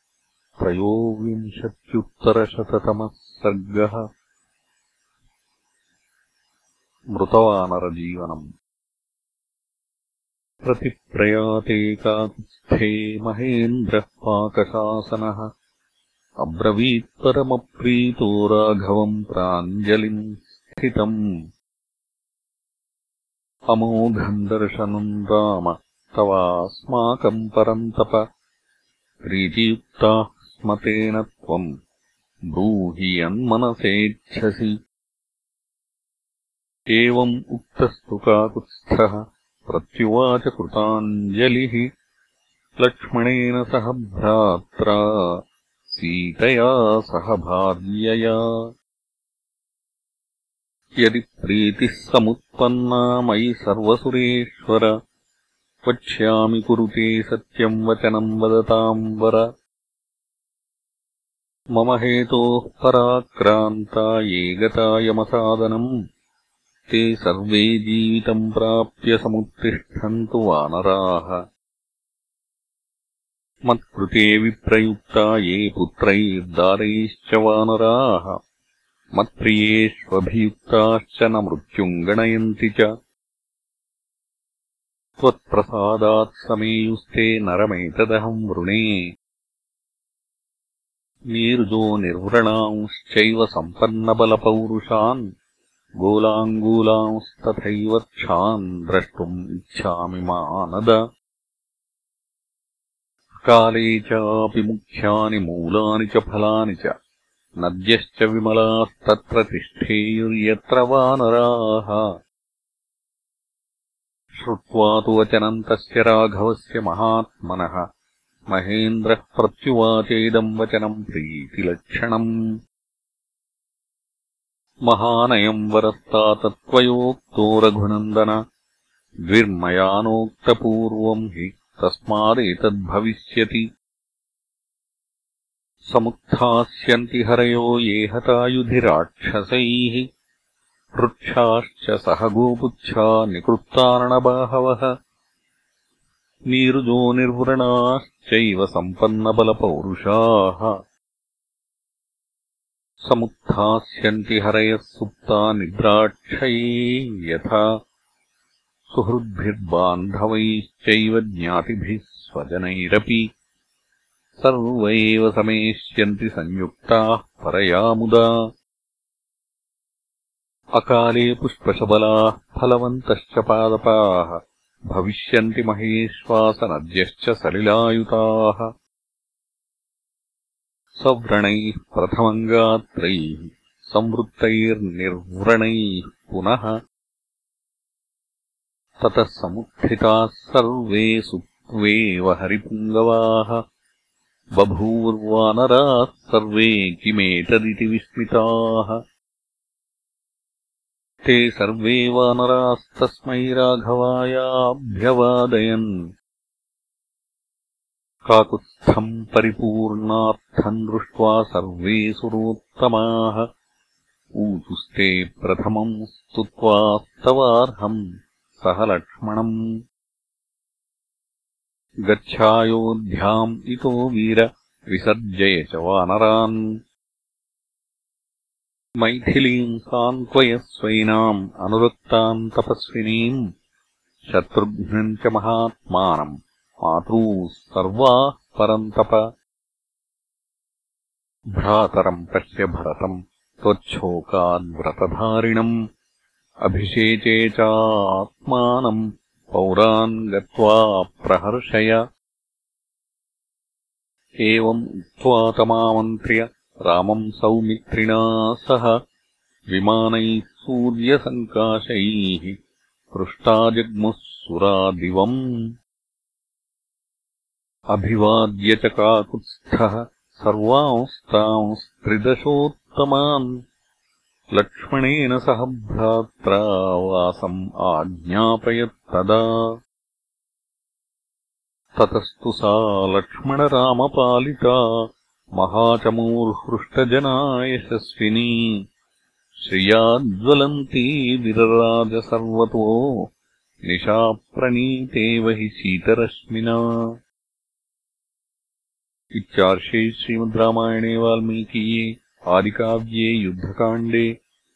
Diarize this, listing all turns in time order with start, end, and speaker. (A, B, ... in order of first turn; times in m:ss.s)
0:00.6-0:04.0 A
0:07.2-0:08.4 A
0:10.6-0:15.4 A
0:16.4-0:21.2 A
0:23.7-0:28.2 A
0:29.2-0:31.7 A
0:32.5-0:34.7 A
0:36.9-0:41.9 A
0:42.8-0:45.0 A
0:45.9-0:48.4 A
0:51.0-0:54.9 A
0:55.9-0:59.4 A
1:01.8-1:05.9 A
1:06.9-1:11.4 A
1:13.7-1:18.4 A
1:19.2-1:22.9 A
1:25.2-1:28.9 A
1:31.3-1:35.2 A
1:36.0-1:41.0 A
1:43.4-1:46.9 A
1:47.6-1:52.1 A
1:54.4-1:57.8 A
1:58.5-2:02.3 A
2:04.9-2:08.4 A
2:09.3-2:13.6 A
2:15.9-2:20.0 A
2:21.0-2:24.9 A
2:26.5-2:30.8 A
2:33.1-2:37.6 A
2:38.9-2:43.2 A
2:44.4-2:48.2 A
2:50.8-2:54.4 A
2:54.9-2:58.7 A
3:01.0-3:06.7 A
3:09.0-3:13.6 A
3:14.6-3:19.0 A
3:21.2-3:25.9 A
3:28.3-3:33.4 A
3:34.4-3:38.0 A
3:38.6-3:39.5 A
3:42.1-3:46.6 A
3:49.0-3:53.4 A
3:54.3-3:56.3 A
3:56.8-3:59.2 A
4:01.6-4:05.7 A
4:06.7-4:12.0 A
4:14.4-4:18.9 A
4:19.7-4:22.6 A
4:23.1-4:25.4 A
4:27.9-4:33.5 A
4:34.6-4:39.4 A
4:42.0-4:44.8 A
4:45.6-4:48.6 A
4:49.7-4:53.0 A
4:53.9-4:56.8 A
4:59.4-5:04.3 A